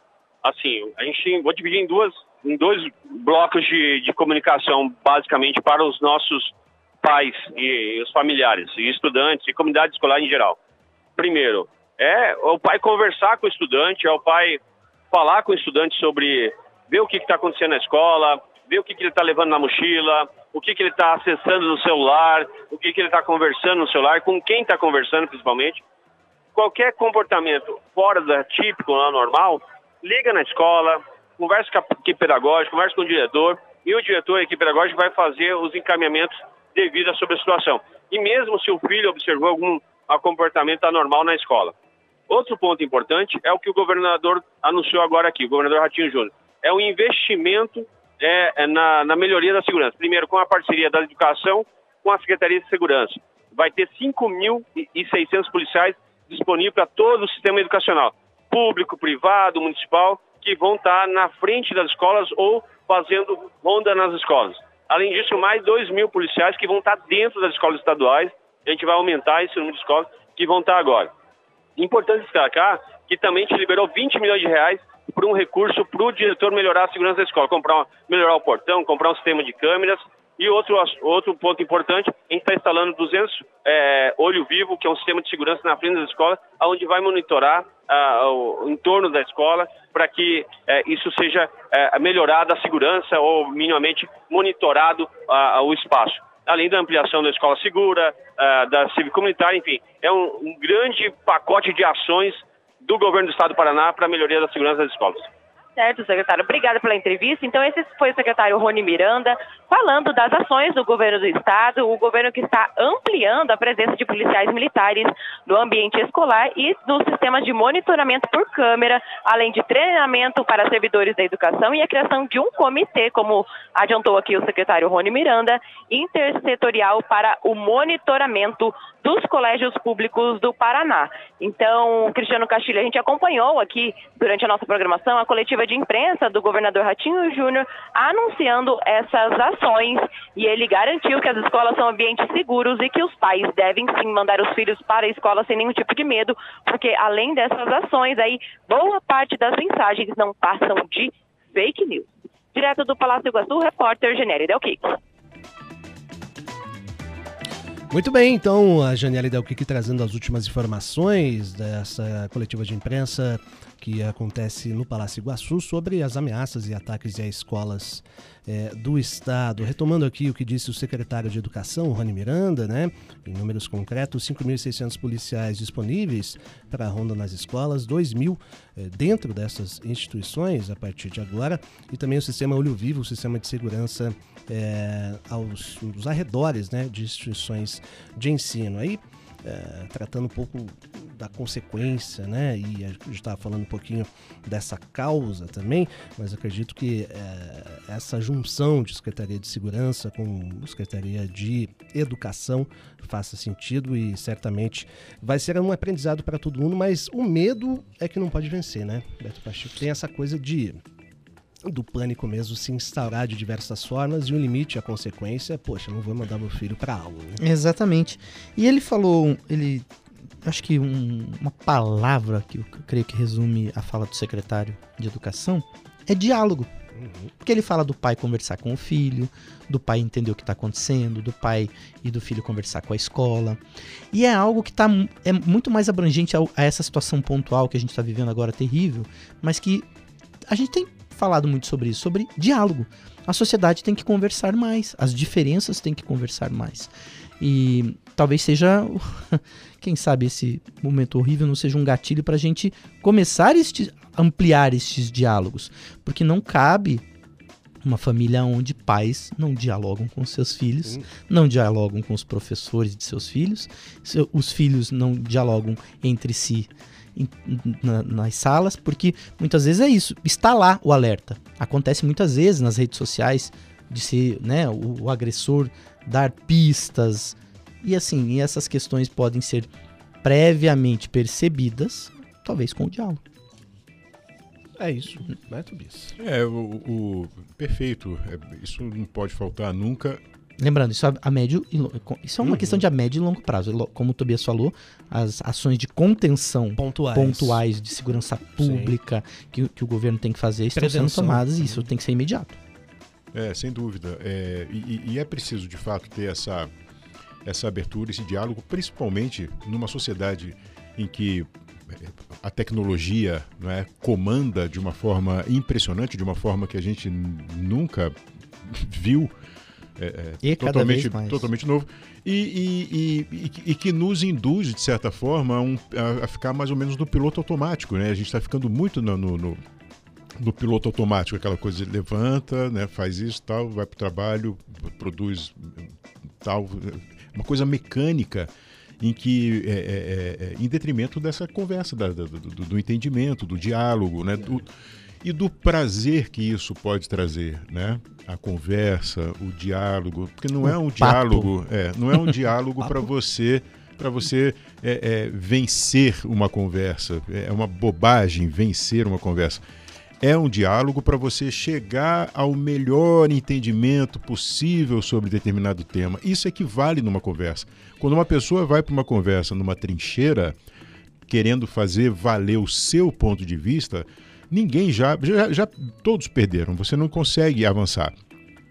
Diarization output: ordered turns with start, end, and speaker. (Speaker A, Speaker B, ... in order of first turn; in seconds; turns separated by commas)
Speaker A: 0.4-10.6, Speaker A: 11.2-14.6, Speaker A: 15.1-25.8, Speaker A: 26.5-41.7, Speaker A: 42.3-71.1, Speaker A: 71.8-105.3, Speaker B: 105.8-154.9, Speaker C: 157.9-210.8, Speaker C: 211.6-217.4, Speaker D: 217.4-219.9, Speaker D: 220.4-226.7, Speaker C: 226.9-227.3, Speaker D: 227.4-233.6, Speaker D: 234.1-239.9, Speaker D: 240.5-257.0, Speaker D: 257.8-279.7, Speaker D: 280.2-283.2, Speaker C: 284.8-286.1, Speaker E: 286.2-290.2, Speaker D: 290.6-302.6, Speaker C: 292.4-292.8, Speaker C: 296.8-297.6, Speaker C: 298.6-298.9, Speaker C: 300.8-301.8, Speaker E: 303.3-306.7, Speaker E: 307.4-319.3, Speaker E: 320.0-329.6, Speaker D: 320.4-321.5, Speaker E: 330.4-344.7, Speaker E: 345.2-359.6, Speaker D: 350.6-351.5, Speaker D: 352.1-353.0, Speaker E: 360.2-370.6, Speaker E: 371.3-378.1